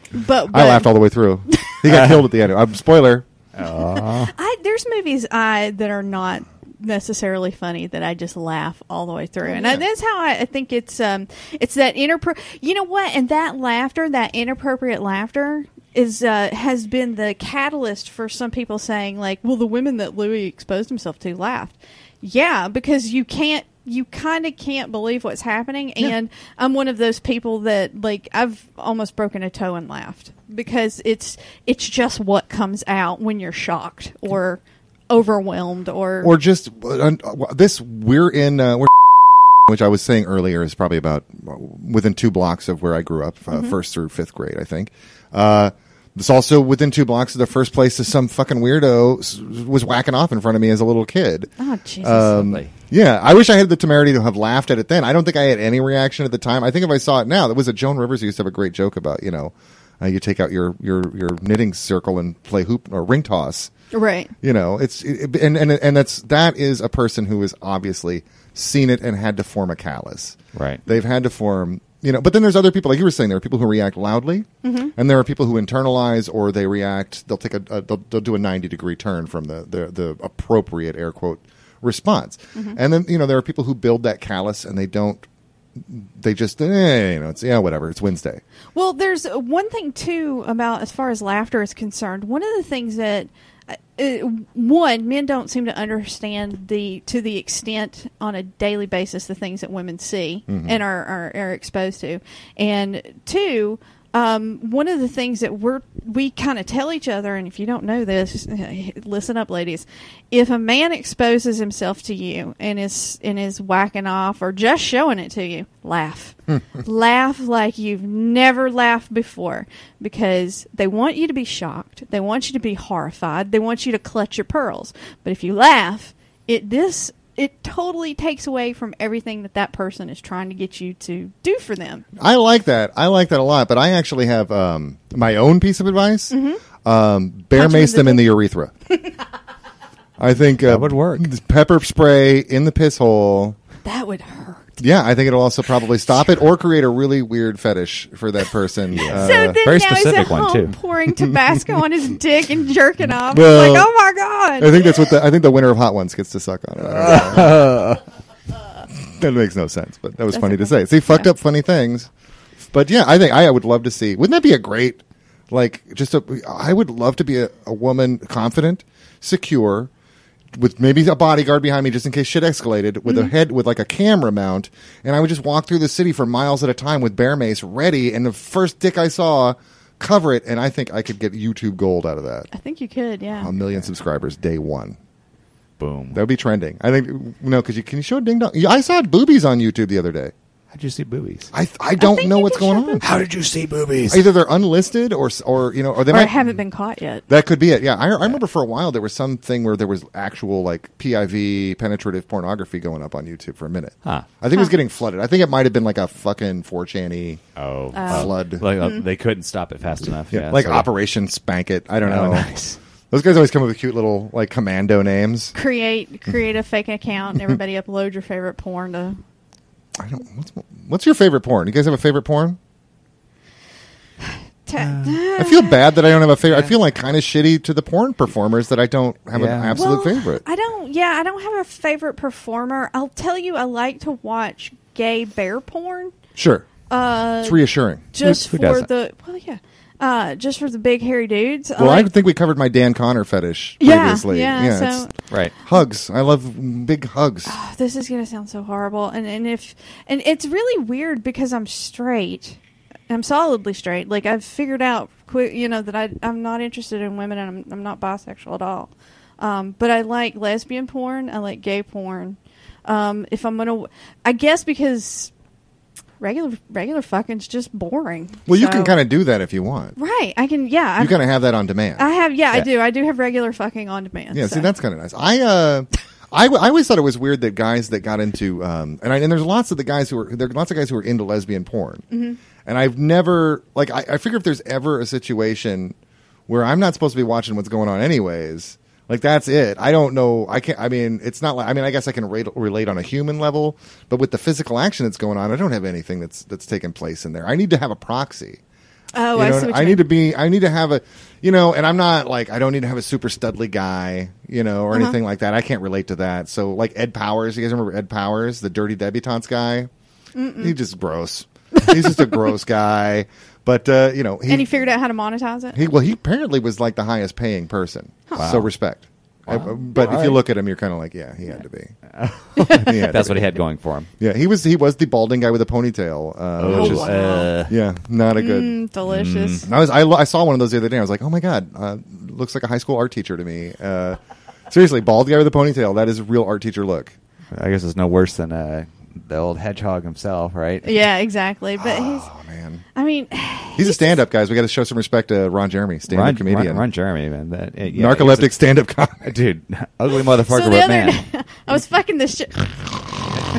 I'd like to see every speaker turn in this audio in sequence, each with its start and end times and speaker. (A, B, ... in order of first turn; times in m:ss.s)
0:00.1-0:00.9 A
0:00.5-0:03.3 B
0:01.5-0:01.8 A
0:01.8-0:02.3 C
0:03.5-0:04.3 C
0:03.7-0:36.3 A
0:09.4-0:09.8 B
0:36.2-0:39.0 B
0:39.6-0:51.5 B
0:43.5-0:43.7 A
0:51.6-0:52.6 A
0:52.0-1:03.7 B
0:52.4-0:52.7 C
1:03.9-1:04.3 A
1:04.4-1:25.2 B
1:10.5-1:10.8 C
1:14.6-1:14.9 A
1:25.8-1:28.4 B
1:28.7-2:12.0 A
1:40.5-1:40.8 B
2:12.2-2:18.7 B
2:16.3-2:16.6 A
2:17.5-2:18.3 A
2:20.2-2:23.6 B
2:20.6-2:21.3 C
2:23.8-2:24.8 A
2:24.8-2:29.6 B
2:28.9-2:30.8 C
2:29.0-2:35.0 A
2:33.3-2:33.9 B
2:34.6-2:37.8 B
2:36.9-2:38.0 C
2:38.9-2:42.1 B
2:40.3-2:41.3 A
2:42.7-2:49.9 B
2:50.5-3:02.5 B
2:53.0-2:53.3 A
3:02.5-3:03.5 A
3:03.4-3:05.0 B
3:05.8-3:06.2 C
3:06.1-3:10.3 B
3:10.7-3:11.5 C
3:11.5-3:13.0 B
3:12.0-3:13.0 A
3:13.0-3:14.3 C
3:14.1-3:16.3 B
3:16.1-3:17.2 A
3:17.3-3:27.4 B
3:27.6-3:30.9 C
3:27.9-3:29.0 A
3:28.1-3:28.6 B
3:30.3-3:32.5 B
3:32.0-3:32.8 C
3:33.1-3:35.5 B
3:35.5-3:39.2 A
3:40.0-3:42.6 B
3:44.6-3:45.8 A
3:44.9-3:45.1 C
3:45.4-3:50.4 B
3:46.5-3:46.7 C
3:49.3-3:49.8 C
3:49.7-3:56.1 A
3:56.3-3:56.7 B
3:56.9-4:02.1 A
3:57.4-3:58.1 B
3:58.2-3:58.9 C
4:01.8-4:05.1 B
4:03.8-4:05.1 A
4:05.6-4:07.5 B
4:07.4-4:12.6 A
4:13.1-4:25.3 A
4:26.2-4:29.0 A
4:28.5-4:30.0 B
4:30.0-4:31.2 A
4:31.0-4:32.7 B
4:32.0-4:34.7 A
4:34.3-4:42.1 B
4:42.1-4:42.4 A
4:42.6-4:46.0 B
4:46.5-4:58.6 B
4:59.1-5:00.0 A
4:59.3-5:09.9 B
5:10.3-5:10.8 A
5:10.6-5:14.7 B
5:14.5-5:15.9 A
5:15.7-5:22.0 B
5:18.4-5:18.7 C
5:19.5-5:20.4 C
5:22.1-5:24.1 C
5:22.6-5:22.9 A
5:22.6-5:23.6 B
5:24.2-5:27.1 B
5:26.6-5:27.7 C
5:26.7-5:27.5 A
5:27.7-5:28.8 B
5:28.4-5:29.6 A
5:29.0-5:29.6 C
5:29.6-5:34.2 B
5:34.7-5:37.1 B
5:37.5-5:41.0 C
5:40.8-5:42.3 A
5:41.8-5:42.8 B
5:42.9-5:44.2 A
5:43.7-5:46.8 B
5:46.1-5:48.6 C
5:47.9-5:49.4 B
5:49.2-5:51.2 C
5:50.4-5:52.9 A